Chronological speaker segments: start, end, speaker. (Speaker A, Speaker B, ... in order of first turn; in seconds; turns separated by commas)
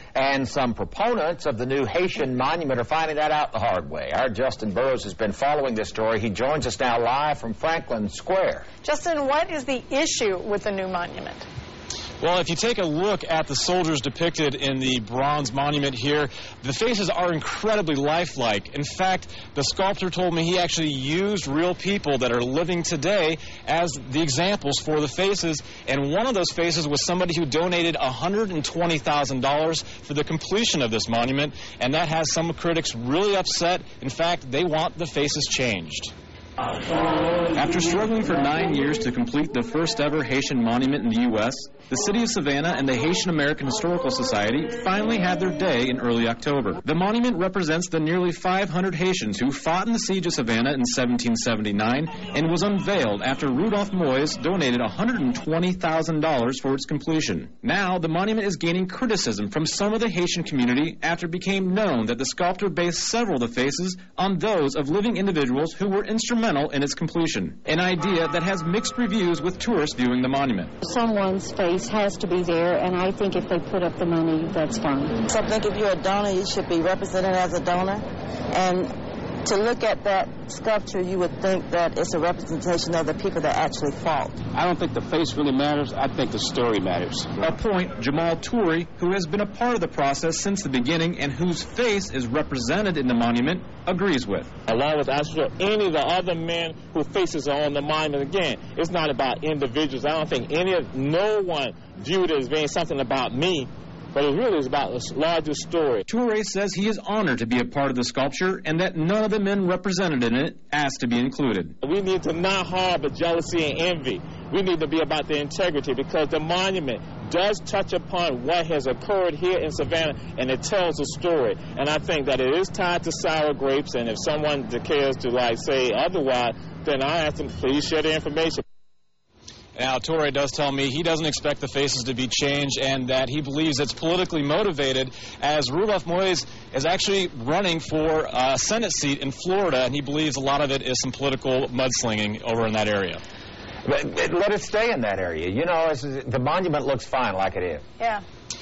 Speaker A: 0.1-8.7, Speaker B: 8.8-11.5, Speaker C: 12.2-36.1, Speaker C: 37.5-70.7, Speaker D: 70.8-75.2, Speaker E: 75.2-84.4, Speaker F: 84.8-87.3, Speaker C: 87.4-94.5, Speaker G: 94.7-106.0, Speaker C: 106.1-111.7, Speaker G: 111.8-128.6, Speaker C: 129.8-143.2, Speaker A: 143.8-147.8